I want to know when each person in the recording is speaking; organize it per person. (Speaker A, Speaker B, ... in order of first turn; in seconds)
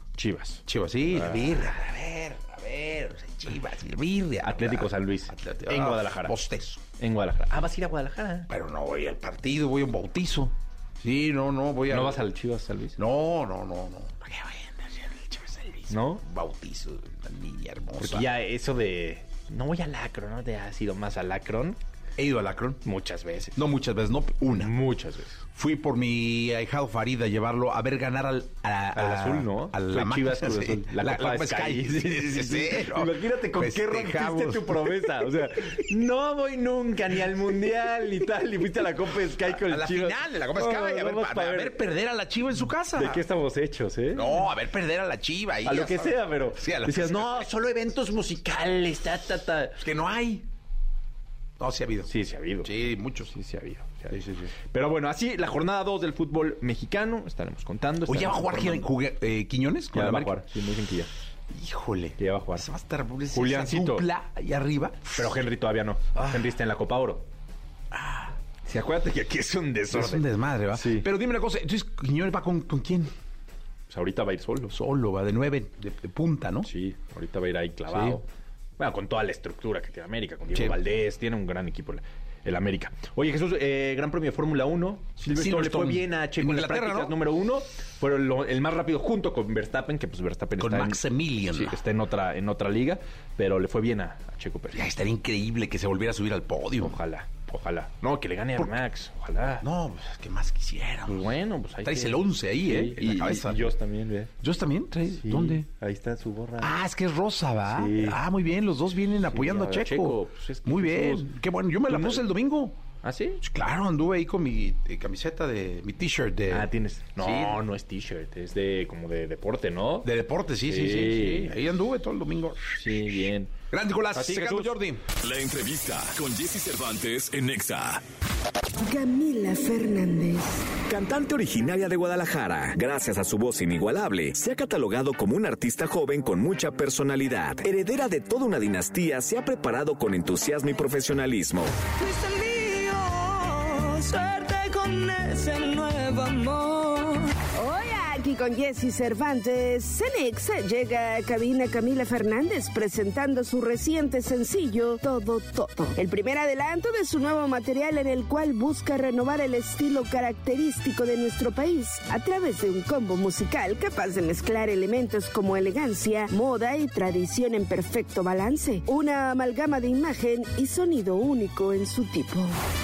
Speaker A: 0.2-1.6, 4.4-6.3, 7.0-8.5, 11.9-13.0, 15.9-16.2, 18.0-21.8, 22.8-23.6, 24.5-25.4, 28.9-41.8, 42.9-44.4, 45.6-49.8, 52.1-52.7, 53.3-58.9, 59.9-61.1, 62.2-62.7, 63.3-64.1, 65.1-67.2, 68.7-71.1, 73.9-74.7, 76.7-78.3, 78.8-91.0, 91.5-94.8, 96.8-99.6, 101.1-104.3, 105.2-106.7, 107.7-108.2, 109.2-111.3, 111.9-112.2, 113.0-113.4, 116.5-120.1, 120.7-121.5, 122.8-123.5, 124.1-124.7
Speaker B: 0.7-6.8, 8.5-12.2, 13.0-18.3, 22.2-22.8, 23.5-24.7, 25.5-35.1, 39.5-43.2, 44.1-47.5, 49.8-50.5, 51.6-52.1, 52.6-53.3, 54.1-54.5, 58.0-60.3, 61.5-65.3, 66.1-66.5, 67.9-68.3, 69.9-73.1, 74.7-76.7, 77.9-78.2, 85.3-87.1, 90.6-91.8, 94.7-96.9, 99.6-101.2, 101.8-103.6, 104.4-105.7, 106.6-112.8, 113.4-117.6, 120.0-122.7, 123.7-125.0
Speaker C: 125.2-128.0
Speaker D: 128.8-130.6, 147.6-172.6
Speaker E: 130.9-141.7
Speaker F: 141.9-147.3